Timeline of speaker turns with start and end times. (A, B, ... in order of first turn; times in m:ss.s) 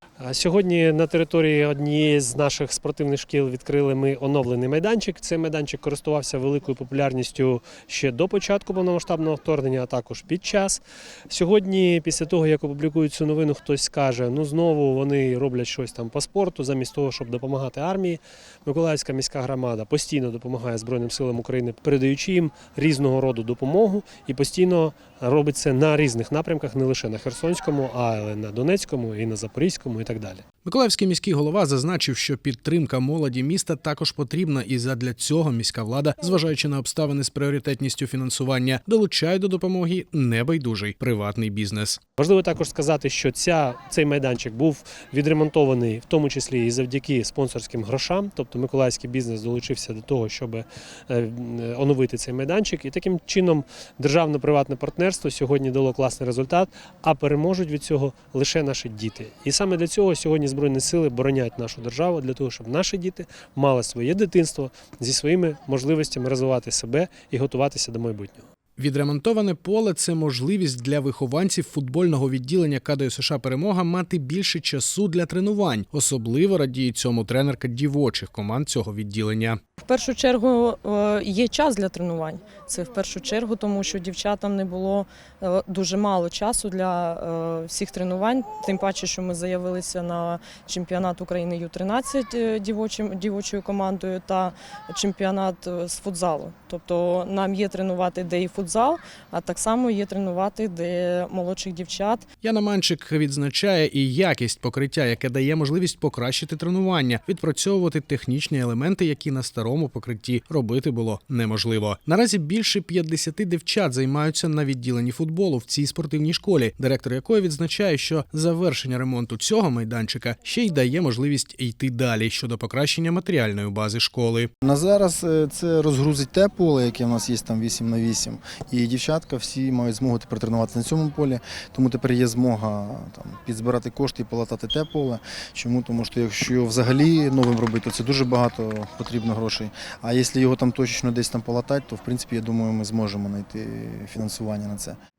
0:00.2-0:30.4 A
0:30.6-0:42.0 B
0:42.2-1:08.4 A
1:08.8-1:19.6 B
1:19.8-1:42.3 C
1:42.4-2:04.5 B
2:04.6-2:25.0 D